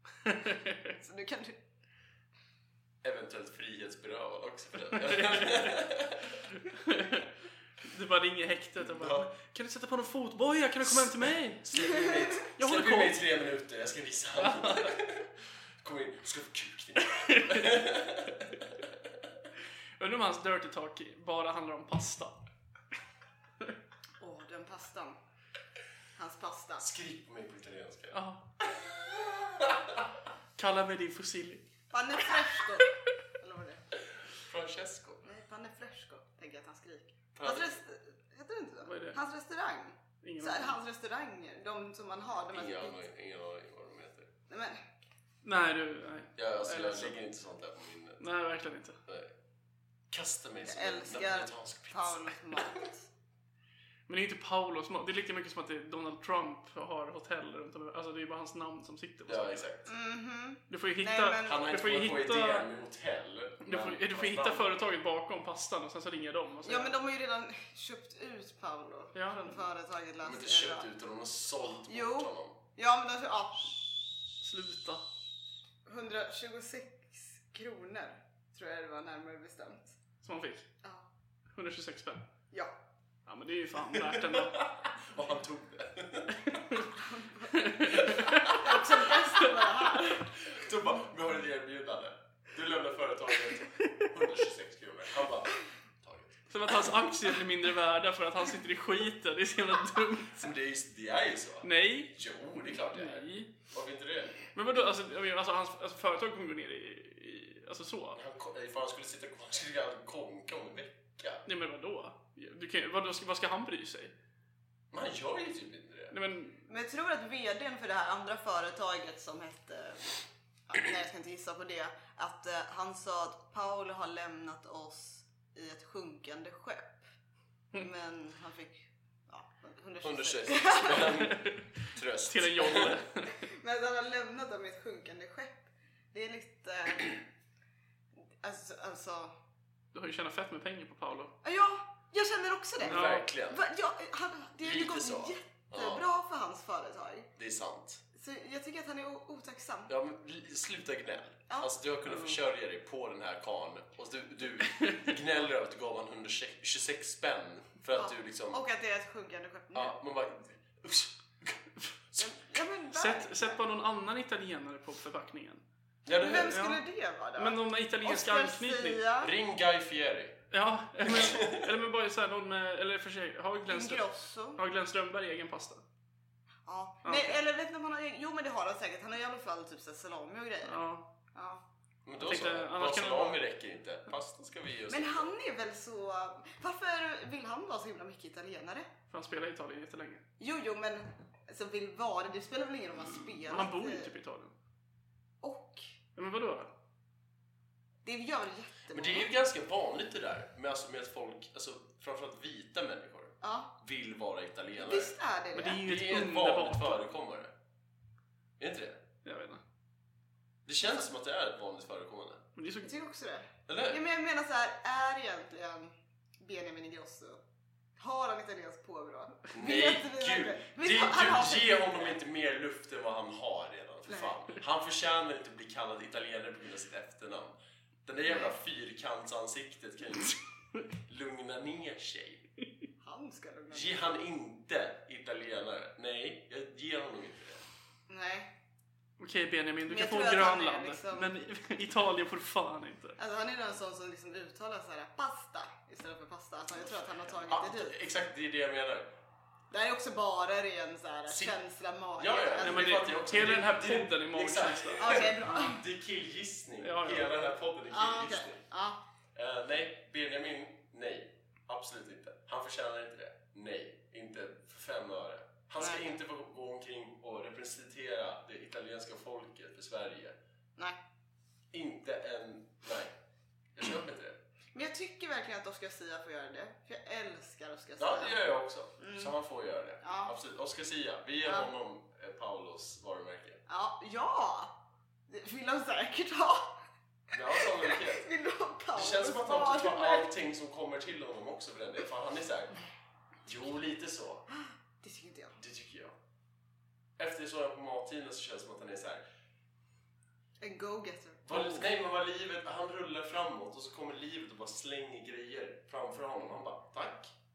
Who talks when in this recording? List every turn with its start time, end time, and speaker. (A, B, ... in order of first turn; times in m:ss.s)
0:00.2-0:00.9 A
0:00.9-0:01.6 B
0:03.0-0:06.4 C
0:05.0-0:05.8 A
0:06.5-0:07.3 A
0:07.8-0:11.8 A
0:08.8-0:09.3 C
0:10.8-0:18.9 C
0:12.5-0:13.2 A
0:14.4-0:14.9 A
0:17.0-0:17.7 A
0:20.0-0:22.4 A
0:24.2-0:25.2 B
0:26.2-0:26.8 B
0:26.8-0:30.1 C
0:28.1-0:28.4 A
0:30.6-0:31.6 A
0:31.9-0:33.8 B
0:34.3-0:35.2 C
0:35.2-0:43.0 B
0:37.3-0:37.7 C
0:38.8-0:39.2 A
0:40.2-0:40.8 A
0:42.5-0:44.3 C
0:44.5-0:44.8 B
0:45.4-0:47.2 A
0:46.4-0:48.2 C
0:48.2-0:49.0 A
0:49.1-0:49.3 C
0:50.1-0:52.7 C
0:50.6-0:53.1 B
0:54.1-0:59.7 A
0:59.3-0:59.8 C
0:59.8-1:01.7 B
1:00.7-1:02.7 A
1:01.4-1:04.7 C
1:03.6-1:06.9 A
1:06.6-1:10.9 B
1:09.1-1:09.5 A
1:10.2-1:12.6 C
1:11.8-1:13.8 B
1:14.4-1:15.0 A
1:15.8-1:19.9 B
1:20.2-1:20.7 A
1:21.5-1:22.3 A
1:23.2-1:24.6 A
1:23.9-1:26.5 C
1:26.4-1:26.9 A
1:27.1-1:30.2 B
1:27.5-1:28.6 A
1:27.9-1:28.8 C
1:29.1-1:29.7 A
1:30.1-1:37.1 C
1:36.5-1:40.5 A
1:40.4-1:44.4 C
1:41.6-1:43.5 A
1:44.5-1:48.2 A
1:48.1-1:51.4 C
1:51.4-1:54.1 A
1:54.9-1:56.2 C
1:56.1-1:56.6 A
1:56.6-2:07.1 B
2:07.7-2:11.2 B
2:10.0-2:13.0 C
2:11.1-2:13.3 A
2:13.4-2:17.2 B
2:18.4-2:19.3 B
2:19.9-2:21.3 A
2:21.4-2:27.3 B
2:22.8-2:23.6 C
2:22.9-2:23.3 A
2:24.6-2:26.0 C
2:27.4-2:28.0 C
2:28.1-2:29.9 B
2:29.9-2:38.6 C
2:32.1-2:32.4 A
2:34.7-2:35.0 A
2:37.9-2:39.9 B
2:39.7-2:41.7 C
2:42.2-2:43.6 B
2:42.9-2:45.6 A
2:46.0-2:46.6 C
2:46.2-2:49.3 B
2:46.3-2:46.8 A
2:47.4-2:49.1 A
2:49.2-2:50.4 C
2:50.5-2:54.0 A
2:51.0-2:51.7 C
2:53.7-2:54.6 B
2:54.6-2:55.8 A
2:56.6-3:00.8 B
2:57.0-2:57.4 A
3:00.6-3:01.0 A
3:01.3-3:01.6 B
3:02.0-3:05.3 C
3:02.2-3:03.4 A
3:04.9-3:08.9 B
3:09.1-3:10.2 A
3:10.4-3:14.1 B
3:13.4-3:14.5 A
3:15.4-3:15.9 B
3:16.2-3:16.7 A
3:18.0-3:19.3 B
3:18.9-3:25.1 C
3:23.4-3:23.7 B
3:24.8-3:25.8 B
3:25.5-3:27.0 A
3:25.8-3:27.5 C
3:28.6-3:29.0 C
3:29.2-3:29.6 A
3:30.6-3:32.4 C
3:32.6-3:32.9 A
3:32.8-3:37.4 B
3:33.7-3:34.0 C
3:38.0-3:42.2 B
3:39.5-3:50.4 C
3:51.0-3:52.4 C
3:53.0-3:54.1 B
3:53.7-3:57.6 C
3:58.1-3:58.5 B
3:59.2-4:03.2 A
3:59.9-4:01.3 B
4:03.2-4:08.0 B
4:07.4-4:09.1 C
4:09.7-4:13.1 B
4:11.3-4:11.6 C
4:12.2-4:18.6 C
4:12.6-4:15.5 A
4:15.0-4:15.8 B
4:16.8-4:17.3 A
4:17.9-4:19.0 B
4:19.3-4:30.4 C
4:25.8-4:26.1 B
4:31.7-4:33.1 C
4:33.7-4:34.4 C
4:34.7-4:38.4 B
4:38.0-4:43.6 C
4:39.0-4:39.3 B
4:40.0-4:40.3 B
4:41.4-4:41.7 B
4:43.7-4:44.7 B
4:45.3-4:46.8 B
4:47.3-4:48.2 C
4:47.5-4:50.3 B
4:48.9-4:52.8 C
4:53.4-4:54.4 C
4:54.5-4:55.6 B
4:55.6-4:56.1 C
4:57.2-4:59.2 C
5:00.6-5:01.8 B
5:01.4-5:07.3 C